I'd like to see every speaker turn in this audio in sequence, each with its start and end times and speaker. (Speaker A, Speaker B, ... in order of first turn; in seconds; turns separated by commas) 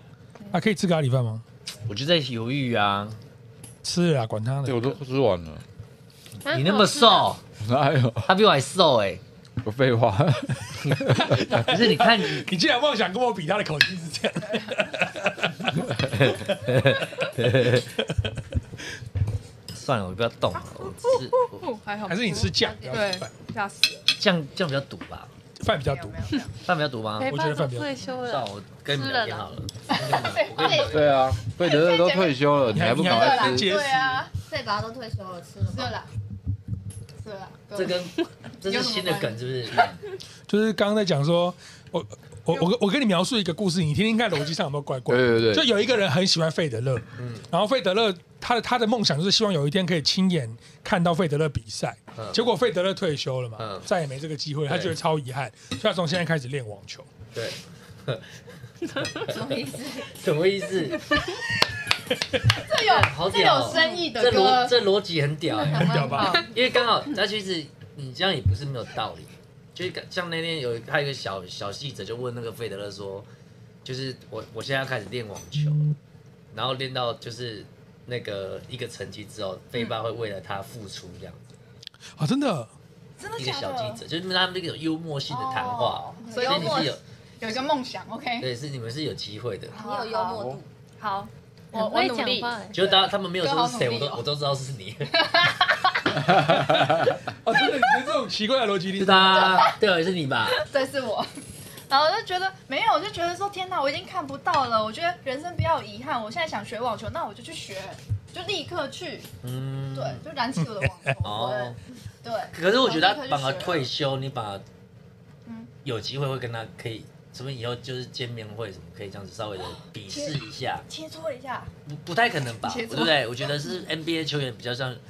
Speaker A: 0.5-1.4, Speaker B: 1.9-3.2, Speaker A: 3.8-5.0, Speaker C: 4.7-5.6, Speaker D: 6.5-7.3, Speaker B: 6.5-7.4, Speaker C: 7.6-8.3, Speaker B: 8.3-9.2, Speaker C: 9.6-11.6, Speaker A: 11.1-18.0, Speaker B: 11.5-12.5, Speaker B: 16.3-17.8, Speaker B: 19.7-21.6, Speaker E: 20.7-24.1, Speaker A: 22.1-23.3, Speaker B: 24.2-25.3, Speaker A: 25.6-26.2, Speaker E: 25.8-26.5, Speaker B: 26.6-27.3, Speaker D: 27.2-29.5, Speaker A: 27.3-27.9, Speaker B: 28.2-31.2, Speaker E: 29.9-32.4, Speaker C: 30.7-33.7, Speaker A: 32.7-34.3, Speaker E: 33.0-34.3, Speaker F: 34.4-36.0, Speaker E: 35.6-36.1, Speaker E: 37.2-38.1, Speaker B: 37.8-40.0, Speaker E: 38.6-39.9, Speaker A: 40.5-57.1, Speaker C: 45.1-45.7, Speaker B: 47.2-47.5, Speaker B: 52.1-52.4, Speaker B: 53.6-53.9, Speaker B: 54.7-55.0, Speaker B: 57.3-58.3, Speaker F: 59.1-60.1, Speaker B: 59.2-59.5, Speaker B: 60.0-61.1, Speaker E: 62.5-64.8, Speaker B: 62.7-73.3, Speaker F: 63.7-64.1, Speaker F: 65.6-66.5, Speaker A: 65.7-66.4, Speaker D: 66.1-66.5, Speaker E: 66.1-66.5, Speaker B: 73.8-75.9, Speaker B: 76.5-81.5, Speaker A: 82.2-82.7, Speaker E: 83.2-84.0, Speaker B: 83.4-87.0, Speaker E: 85.3-88.5, Speaker B: 88.4-89.8, Speaker E: 89.7-94.2, Speaker F: 89.8-90.7, Speaker D: 91.7-92.8, Speaker B: 92.7-95.4, Speaker E: 95.2-96.1, Speaker A: 96.2-99.7, Speaker B: 99.0-100.6, Speaker E: 99.3-99.8, Speaker E: 100.5-101.3, Speaker E: 101.9-109.3, Speaker B: 109.4-110.2, Speaker E: 110.0-113.9, Speaker A: 110.6-111.2, Speaker B: 111.2-111.8, Speaker B: 112.5-114.6, Speaker E: 115.5-115.7, Speaker B: 115.8-120.9, Speaker E: 120.1-121.7, Speaker B: 121.9-125.0, Speaker E: 122.6-123.8